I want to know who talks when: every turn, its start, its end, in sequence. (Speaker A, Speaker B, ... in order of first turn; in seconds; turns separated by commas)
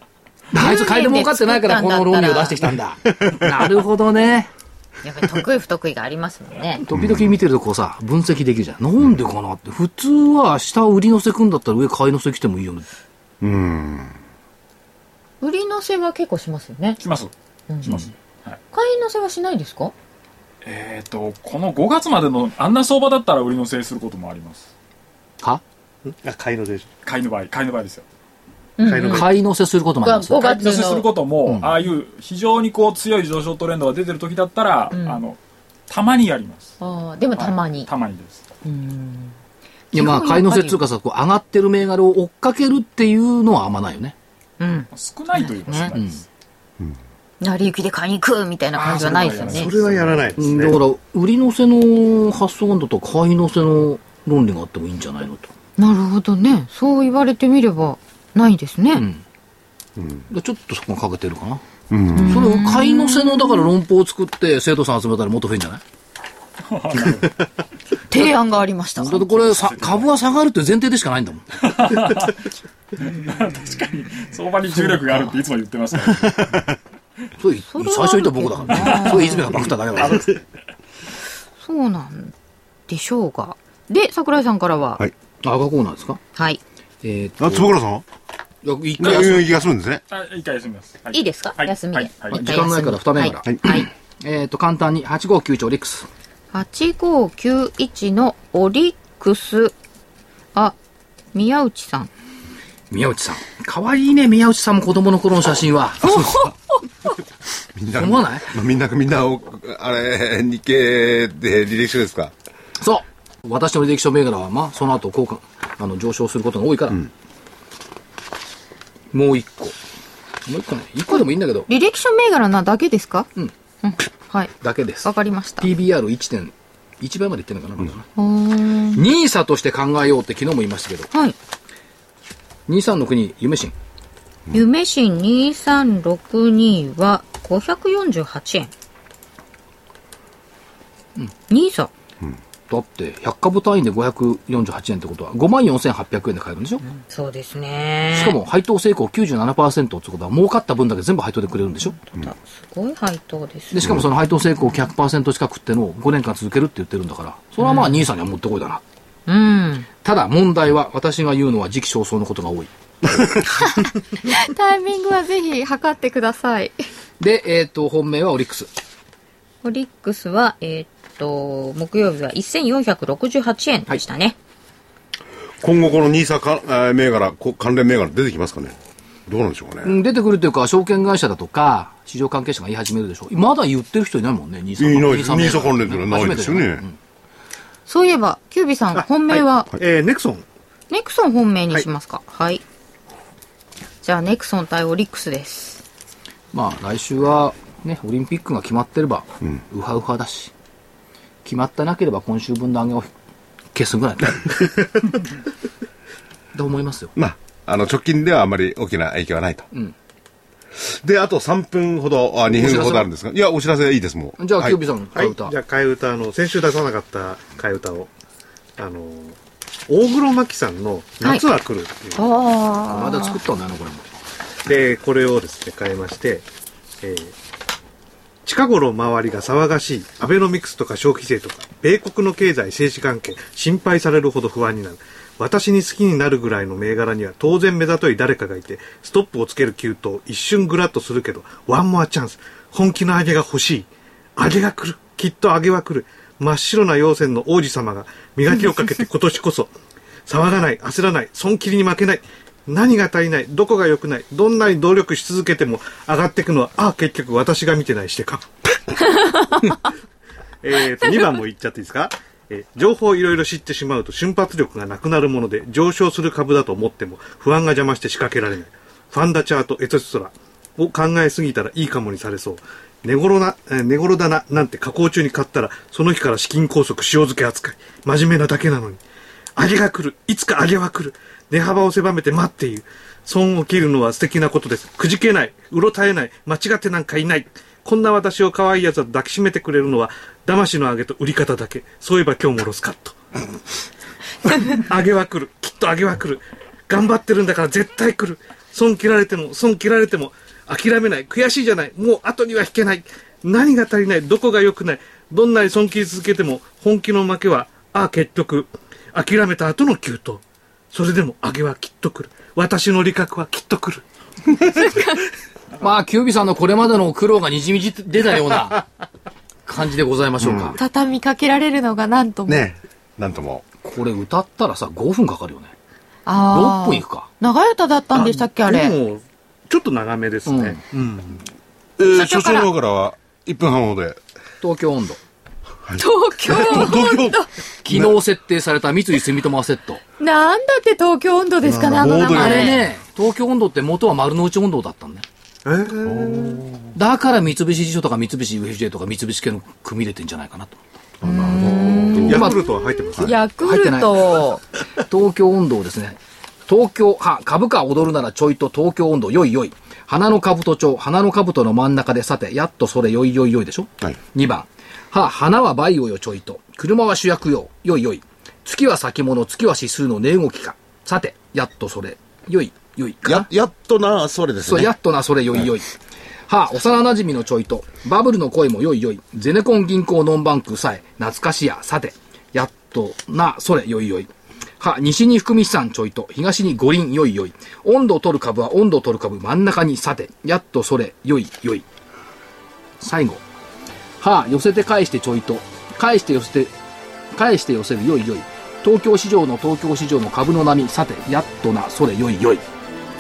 Speaker A: 0.5-4.5, Speaker B: 0.6-2.6, Speaker B: 5.0-6.8, Speaker A: 6.8-12.9, Speaker C: 6.9-7.3, Speaker C: 13.4-14.2, Speaker B: 15.4-17.0, Speaker D: 17.0-17.3, Speaker B: 17.7-18.1, Speaker D: 17.8-18.6, Speaker B: 18.7-19.9, Speaker D: 20.6-24.7, Speaker E: 26.1-26.9, Speaker D: 27.1-28.1, Speaker B: 28.8-29.3, Speaker E: 28.8-29.3, Speaker A: 29.0-30.5, Speaker B: 30.0-31.1, Speaker D: 30.4-36.7, Speaker A: 31.4-31.8, Speaker B: 34.9-35.2, Speaker B: 36.8-37.9, Speaker D: 37.3-38.4, Speaker B: 38.6-39.4, Speaker B: 39.9-40.8, Speaker A: 39.9-44.1, Speaker B: 44.6-46.0, Speaker D: 44.9-46.2, Speaker A: 45.9-46.2, Speaker B: 47.4-49.7, Speaker D: 48.7-50.4, Speaker E: 48.9-50.8, Speaker A: 50.4-55.5, Speaker B: 55.8-59.0, Speaker A: 58.9-59.2, Speaker C: 60.0-60.2, Speaker A: 60.3-61.6, Speaker C: 61.9-62.4, Speaker B: 62.1-63.7, Speaker A: 62.2-65.8, Speaker D: 66.7-67.3, Speaker B: 68.1-69.2, Speaker A: 69.0-71.9, Speaker D: 69.2-70.1, Speaker D: 71.6-72.4, Speaker D: 73.0-76.6, Speaker A: 74.9-75.2, Speaker A: 77.4-80.3, Speaker B: 77.7-79.6, Speaker D: 80.0-80.3, Speaker B: 81.6-82.3, Speaker B: 82.9-85.0, Speaker A: 85.4-86.2, Speaker B: 86.4-86.6, Speaker A: 87.0-87.8, Speaker C: 87.4-88.0, Speaker A: 88.6-89.5, Speaker C: 89.0-90.0, Speaker D: 90.1-92.6, Speaker B: 91.1-93.9, Speaker A: 92.3-96.1, Speaker B: 96.5-99.8, Speaker B: 101.3-102.1, Speaker A: 102.9-106.5, Speaker B: 106.0-106.5, Speaker C: 107.8-112.3, Speaker A: 108.0-108.5, Speaker A: 112.8-117.1, Speaker A: 119.1-119.8, Speaker A: 120.5-121.7, Speaker B: 121.1-123.3, Speaker B: 123.8-125.7, Speaker A: 124.6-125.1, Speaker A: 125.6-128.1, Speaker B: 128.2-129.0, Speaker A: 128.9-131.1, Speaker A: 132.7-133.7, Speaker B: 134.5-138.7, Speaker B: 141.5-141.9, Speaker A: 142.7-146.8, Speaker B: 146.8-148.4, Speaker A: 148.1-152.0, Speaker B: 152.0-154.1, Speaker A: 153.7-158.8, Speaker B: 157.6-158.0, Speaker B: 159.3-159.9, Speaker A: 160.0-162.7, Speaker B: 163.5-166.8, Speaker A: 167.2-168.7, Speaker B: 169.6-174.4, Speaker C: 175.6-178.8, Speaker C: 179.3-180.0, Speaker A: 179.8-187.0, Speaker C: 184.8-186.8, Speaker B: 187.9-189.7, Speaker E: 188.9-190.4, Speaker B: 190.9-192.6, Speaker B: 194.0-195.8, Speaker A: 196.5-200.5, Speaker A: 201.4-203.1, Speaker A: 203.8-204.9, Speaker A: 206.5-207.1, Speaker C: 207.2-209.7, Speaker C: 210.8-214.8, Speaker A: 212.5-213.1, Speaker A: 214.4-215.6, Speaker E: 215.2-218.1, Speaker E: 218.8-219.4, Speaker E: 219.9-222.2, Speaker B: 222.2-223.4, Speaker A: 222.9-224.1, Speaker E: 224.7-226.5, Speaker E: 227.0-227.3, Speaker E: 228.4-249.7, Speaker E: 250.3-258.5, Speaker B: 259.1-259.8, Speaker E: 260.6-279.0, Speaker E: 279.6-293.2, Speaker E: 294.5-314.0, Speaker B: 314.6-315.2, Speaker A: 315.8-318.9, Speaker A: 319.7-320.8, Speaker C: 320.4-320.8, Speaker B: 320.8-322.7, Speaker C: 322.5-323.6, Speaker A: 323.8-325.7, Speaker B: 326.3-329.0, Speaker A: 326.5-327.3, Speaker E: 328.1-331.4, Speaker A: 330.5-330.8, Speaker C: 332.0-334.2, Speaker B: 332.1-332.7, Speaker A: 334.6-335.2, Speaker C: 335.8-338.2, Speaker B: 336.0-337.5, Speaker A: 337.8-340.0, Speaker B: 340.2-342.8, Speaker C: 341.6-342.9, Speaker A: 342.3-345.2, Speaker E: 345.6-346.6, Speaker C: 346.1-346.9, Speaker A: 346.9-350.8, Speaker C: 351.2-352.4, Speaker B: 351.2-354.6, Speaker E: 351.6-353.3, Speaker A: 352.2-352.6, Speaker A: 353.3-354.2, Speaker A: 355.1-373.5, Speaker C: 373.2-374.9, Speaker A: 374.7-375.9, Speaker A: 376.5-384.3, Speaker A: 384.8-391.9, Speaker A: 393.0-393.4, Speaker A: 394.2-396.7, Speaker A: 397.3-402.6